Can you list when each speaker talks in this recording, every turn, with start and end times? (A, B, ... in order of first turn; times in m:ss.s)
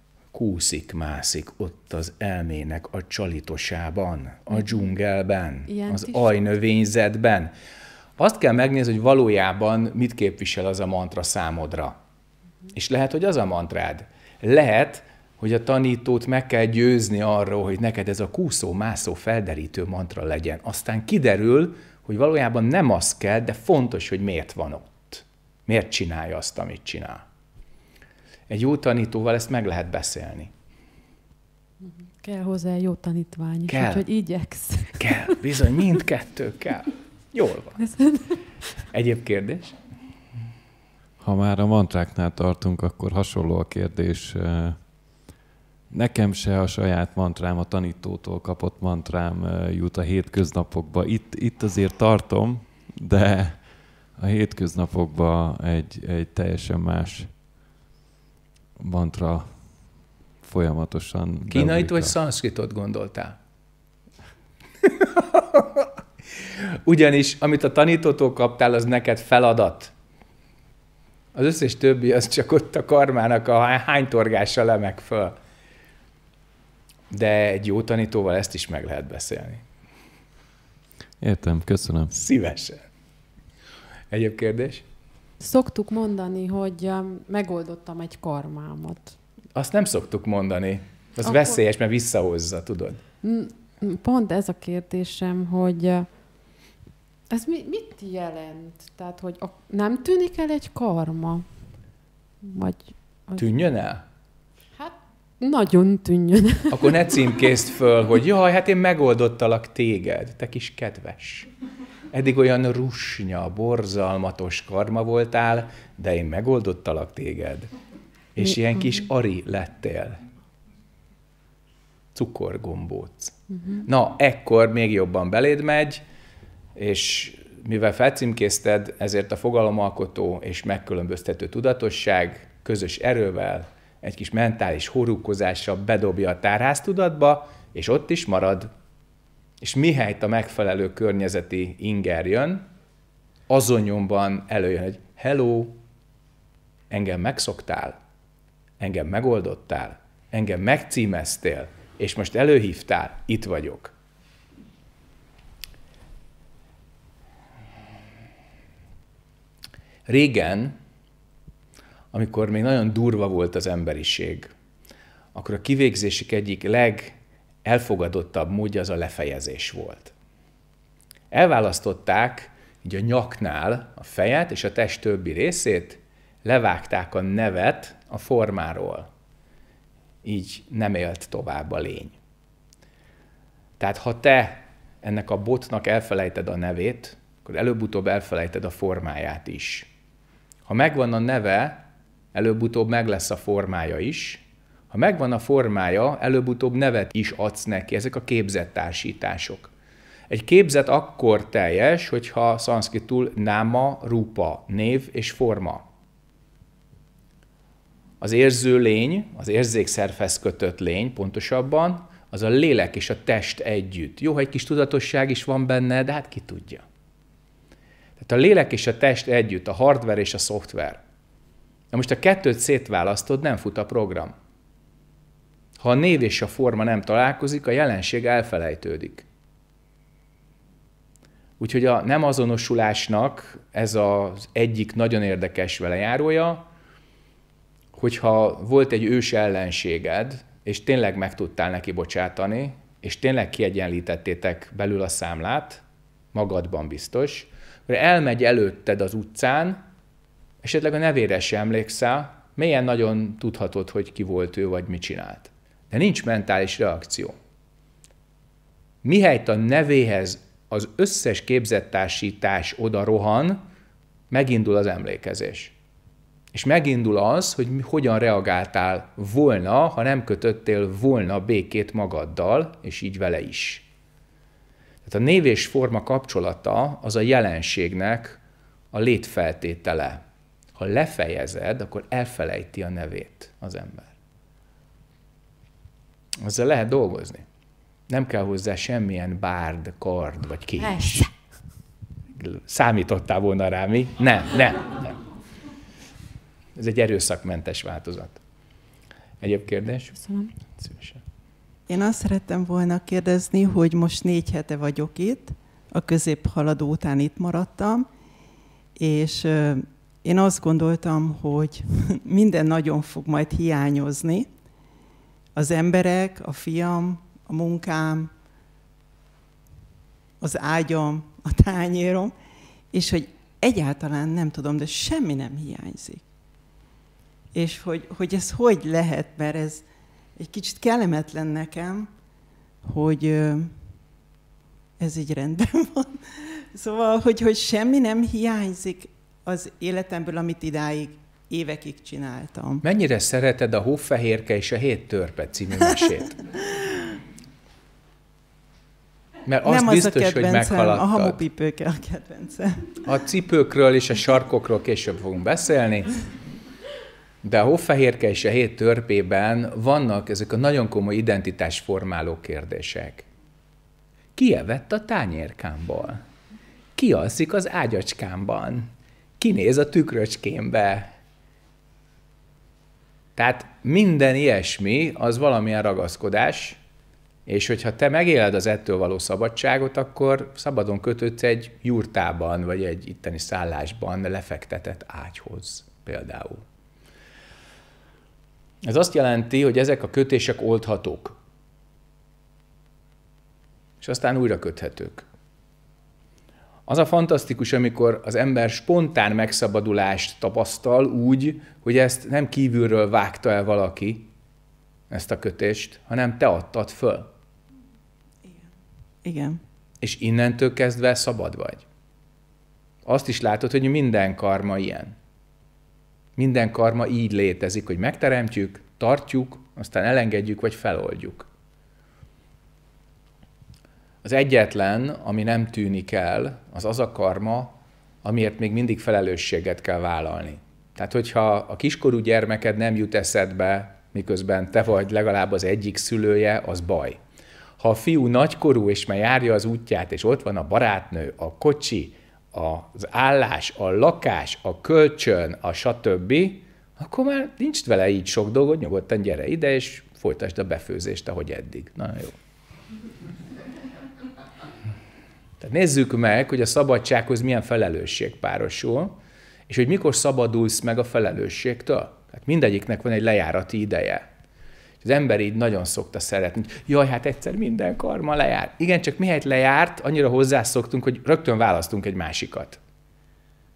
0:00.3-0:07.5 A
0:04.5-0:04.8 B
0:05.7-0:06.3 B
0:08.2-0:12.0 A
0:12.7-0:27.2 A
0:28.5-0:30.5 A
0:31.8-0:35.7 B
0:33.7-0:34.0 A
0:35.0-0:37.8 A
0:37.8-0:38.5 B
0:38.9-0:39.8 A
0:41.2-0:45.3 C
0:45.9-0:57.4 C
0:58.8-1:02.1 C
1:01.5-1:03.4 A
1:04.9-1:05.9 A
1:06.8-1:09.9 A
1:11.3-1:15.3 A
1:17.1-1:19.6 A
1:21.2-1:22.1 C
1:22.1-1:22.8 A
1:24.1-1:24.8 A
1:25.4-1:29.2 B
1:29.5-1:33.0 A
1:31.2-1:31.6 B
1:33.2-1:36.6 B
1:37.3-1:41.8 B
1:42.4-1:43.4 B
1:43.4-1:44.0 A
1:44.8-1:46.8 B
1:46.7-1:51.5 A
1:52.1-1:57.7 A
1:58.3-2:00.2 A
1:58.4-1:59.0 B
2:02.1-2:06.0 A
2:03.5-2:03.9 B
2:06.8-2:18.7 A
2:19.6-2:22.6 A
2:23.5-2:25.8 A
2:26.9-2:28.0 A
2:28.8-2:33.9 A
2:40.1-2:40.8 A
2:42.1-2:44.5 A
2:45.3-2:50.1 A
2:51.3-2:59.1 A
3:00.2-3:02.1 A
3:03.8-3:09.9 A
3:10.7-3:19.7 A
3:20.3-3:25.8 A
3:28.2-3:36.8 A
3:38.2-3:41.0 A
3:41.9-3:44.3 A
3:45.8-3:49.2 A
3:51.6-3:56.6 A
3:57.9-4:05.8 A
4:06.3-4:09.8 A
4:10.6-4:17.3 A
4:19.0-4:23.6 A
4:24.3-4:25.7 A
4:26.5-4:33.8 A
4:35.0-4:38.4 A
4:38.9-4:40.2 A
4:40.8-4:44.1 A
4:46.4-4:47.4 A
4:48.1-4:51.3 A
4:50.8-4:51.2 B
4:52.4-4:55.2 A
4:56.8-4:58.4 A
4:59.4-5:01.2 A
5:00.1-5:00.5 B
5:01.9-5:08.1 D
5:08.9-5:14.6 D
5:15.5-5:18.3 D
5:20.4-5:22.4 D
5:22.9-5:26.2 D
5:27.5-5:32.2 D
5:32.8-5:33.8 D
5:35.0-5:42.8 D
5:42.8-5:46.4 A
5:49.5-5:51.4 A
5:49.6-5:53.0 D
5:53.0-5:56.2 A
5:57.4-6:03.2 A
6:04.4-6:06.2 A
6:07.0-6:11.1 A
6:13.4-6:16.8 A
6:17.5-6:26.6 A
6:28.8-6:31.4 A
6:34.0-6:35.2 A
6:36.9-6:44.3 A
6:45.1-6:47.3 A
6:48.4-6:48.7 D
6:49.2-6:49.6 D
6:50.0-6:51.8 A
6:53.0-6:55.1 A
6:56.4-7:01.5 A
7:04.2-7:17.2 A
7:17.8-7:32.4 A
7:35.6-7:39.2 A
7:39.7-7:44.2 A
7:45.0-7:52.8 A